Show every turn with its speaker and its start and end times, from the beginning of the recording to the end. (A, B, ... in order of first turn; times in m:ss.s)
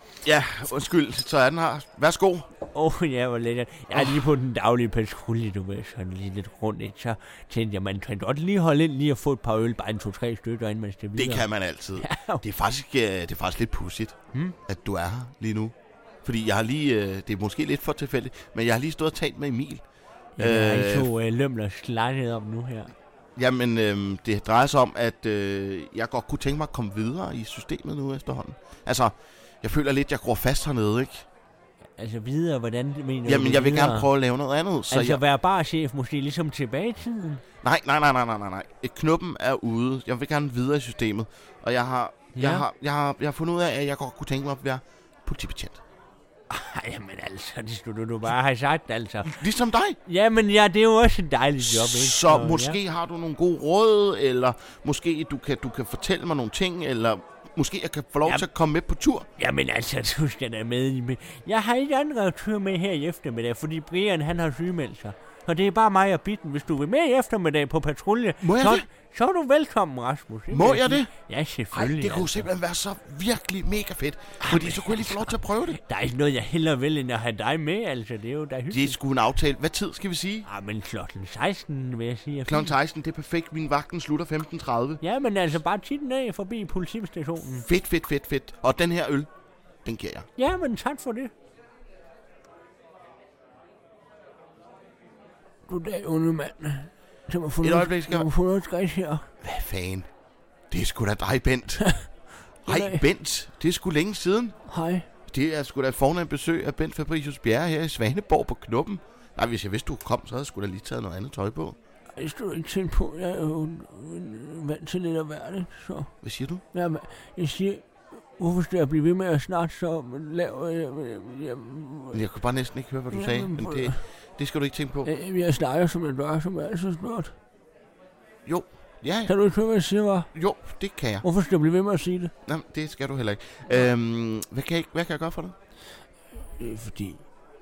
0:00.2-0:02.5 A
0:02.7-0:12.4 B
0:03.9-0:04.2 A
0:11.2-0:19.8 A
0:20.4-0:22.9 B
0:20.4-0:21.1 A
0:23.4-0:31.3 A
0:32.0-0:34.1 B
0:33.2-0:35.2 A
0:34.9-0:37.4 B
0:37.6-0:45.8 A
0:42.4-0:42.6 B
0:46.5-0:49.3 B
0:49.2-0:50.0 A
0:50.0-0:52.8 B
0:51.6-0:59.3 A
0:59.4-1:12.5 B
1:08.4-1:08.9 A
1:10.5-1:11.1 A
1:11.7-1:15.8 A
1:14.4-1:19.0 B
1:18.7-1:20.5 A
1:20.5-1:22.7 B
1:22.5-1:25.0 A
1:25.0-1:27.7 B
1:27.5-1:29.3 A
1:29.8-1:30.3 A
1:30.4-1:31.3 B
1:35.7-1:39.3 B
1:37.6-1:38.3 A
1:39.4-1:40.1 A
1:40.7-1:42.0 A
1:41.8-1:42.1 B
1:42.6-1:43.0 B
1:42.6-1:44.6 A
1:44.7-1:45.1 B
1:45.3-1:51.8 A
1:52.2-1:56.1 B
1:56.2-1:56.6 A
1:56.7-2:02.2 B
2:02.1-2:05.1 A
2:03.1-2:04.0 B
2:05.0-2:07.4 B
2:08.5-2:09.3 A
2:09.3-2:10.3 B
2:10.3-2:11.2 A
2:11.2-2:12.3 B
2:12.5-2:15.6 A
2:16.5-2:17.3 B